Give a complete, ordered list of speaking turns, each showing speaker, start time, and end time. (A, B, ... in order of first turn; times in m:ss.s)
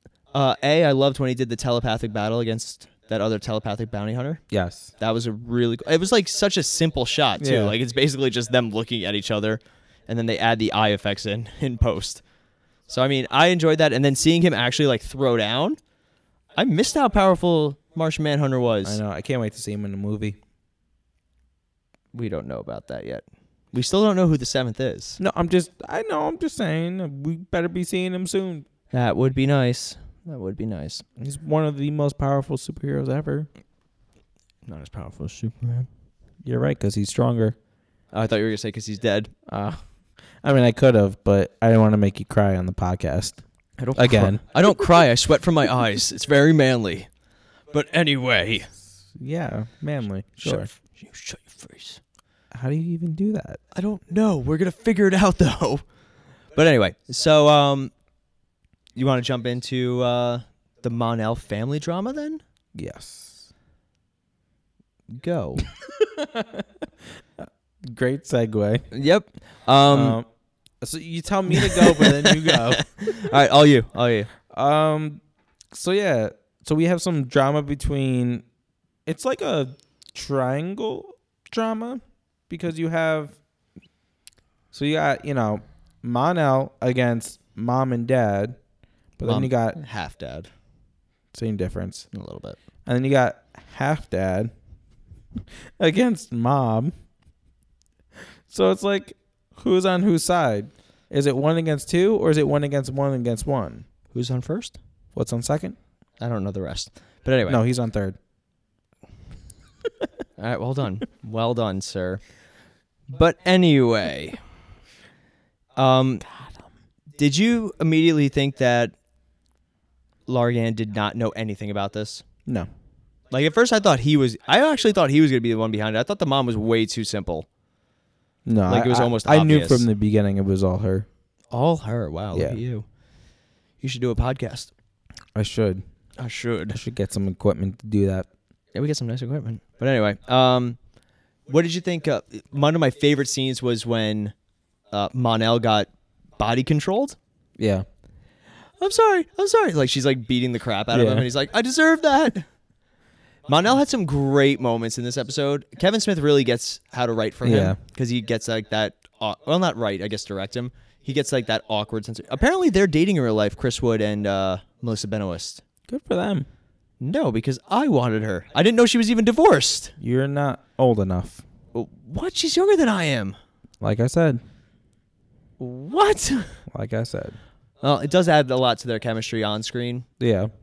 0:00.3-0:04.4 A
0:04.5-0:04.9 B
0:05.0-0:12.2 A
0:07.4-0:07.8 B
0:12.9-0:15.8 A
0:16.6-0:19.0 A
0:18.8-0:20.4 B
0:22.1-0:25.2 A
0:25.2-0:28.7 B
0:28.9-0:31.0 A
0:31.2-0:33.5 B
0:34.7-0:35.9 A
0:36.4-0:37.6 B
0:38.1-0:39.3 A
0:39.5-0:39.8 B
0:40.4-0:43.4 B
0:43.8-0:47.1 A
0:44.0-0:44.8 B
0:47.7-0:48.7 A
0:49.1-0:50.7 B
0:50.4-0:52.0 A
0:52.5-0:53.6 B
0:53.7-0:55.8 A
0:56.6-0:57.9 A
0:59.0-1:02.4 A
1:02.8-1:03.5 B
1:05.1-1:05.7 A
1:05.7-1:08.9 B
1:08.9-1:10.2 A
1:09.9-1:10.3 B
1:10.8-1:13.4 B
1:11.5-1:14.3 A
1:14.5-1:18.4 B
1:19.1-1:23.4 B
1:24.7-1:28.6 B
1:29.2-1:29.8 B
1:29.2-1:30.5 A
1:31.3-1:32.1 B
1:32.1-1:32.6 A
1:32.9-1:34.5 B
1:35.8-1:36.9 B
1:38.5-1:43.9 B
1:44.1-1:44.8 A
1:45.2-1:45.8 B
1:46.2-1:47.6 A
1:47.5-1:48.2 B
1:50.4-1:52.2 A
1:53.1-1:54.4 A
1:55.8-1:56.3 A
1:57.2-1:58.9 A
2:00.3-2:02.2 A
2:03.3-2:07.5 A
2:08.5-2:11.1 B
2:08.7-2:09.8 A
2:11.5-2:12.9 A
2:12.3-2:12.6 B
2:13.8-2:14.7 A
2:15.4-2:15.8 B
2:16.2-2:16.8 A
2:16.7-2:18.3 B
2:18.8-2:20.8 A
2:21.5-2:24.3 A
2:24.9-2:27.2 A
2:27.6-2:27.9 B
2:28.8-2:32.5 A
2:30.9-2:31.3 B
2:33.5-2:45.6 A
2:37.4-2:37.8 B
2:45.9-2:46.5 B
2:47.0-2:49.9 A
2:50.0-2:51.4 B
2:51.7-2:53.4 A
2:53.8-2:54.4 B
2:55.6-2:56.6 A
2:56.7-2:57.4 B
2:57.8-3:00.1 A
3:00.2-3:00.5 B